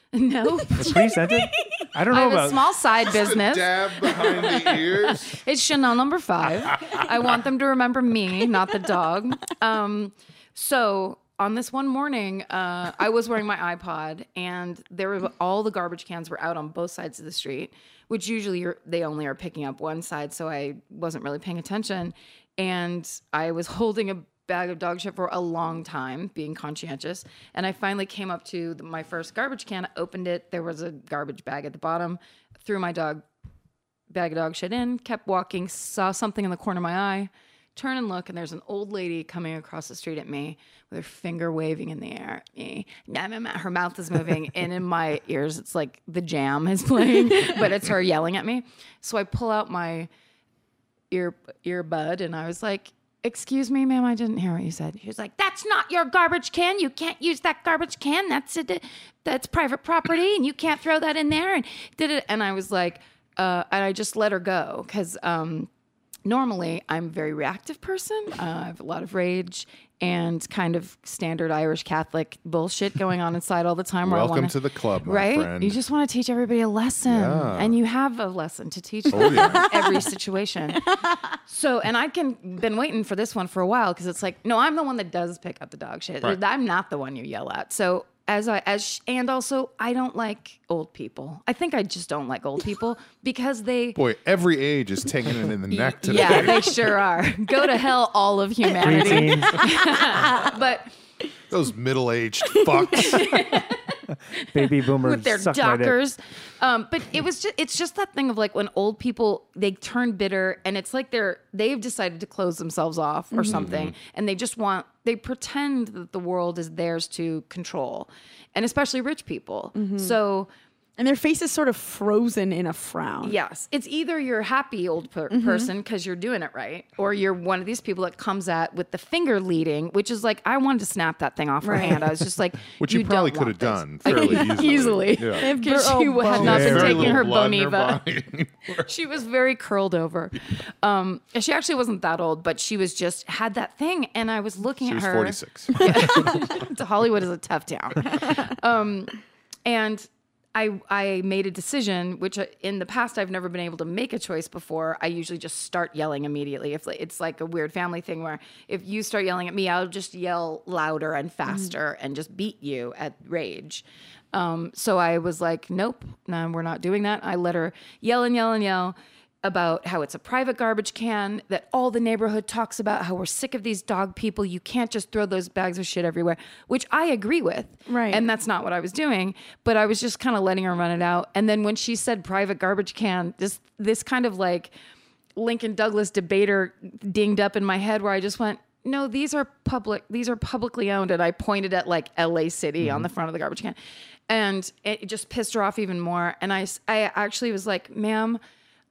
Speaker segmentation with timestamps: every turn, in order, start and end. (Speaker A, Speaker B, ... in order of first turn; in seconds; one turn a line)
Speaker A: 0.1-1.2
Speaker B: 0.8-2.7
Speaker C: 1.0-1.8
Speaker A: 2.1-33.2
Speaker D: 3.0-5.4
Speaker D: 6.7-7.0
Speaker A: 34.1-50.1
Speaker A: 51.1-65.7
Speaker A: 66.3-80.9
Speaker D: 74.0-75.8
Speaker D: 77.1-77.8
Speaker D: 79.1-79.8
Speaker A: 81.5-94.0
Speaker D: 94.0-96.9
Speaker A: 95.8-100.9
Speaker B: 98.8-99.7
Speaker D: 101.5-103.6
Speaker A: 102.9-104.0
Speaker B: 104.4-106.0
Speaker A: 104.6-120.5
Speaker C: 113.3-113.6
Speaker D: 113.5-114.0
Speaker C: 119.8-120.2
Speaker C: 121.0-123.3
Speaker A: 123.2-138.0
Speaker C: 125.3-125.7
Speaker C: 131.6-132.0
Speaker D: 132.8-135.5
Speaker C: 134.1-134.4
Speaker C: 135.3-137.2
Speaker D: 136.3-138.9
Speaker B: 136.4-136.8
Speaker A: 138.8-184.7
Speaker D: 144.8-146.6
Speaker C: 177.9-178.3
Speaker A: 185.4-193.8
Speaker A: 194.3-198.4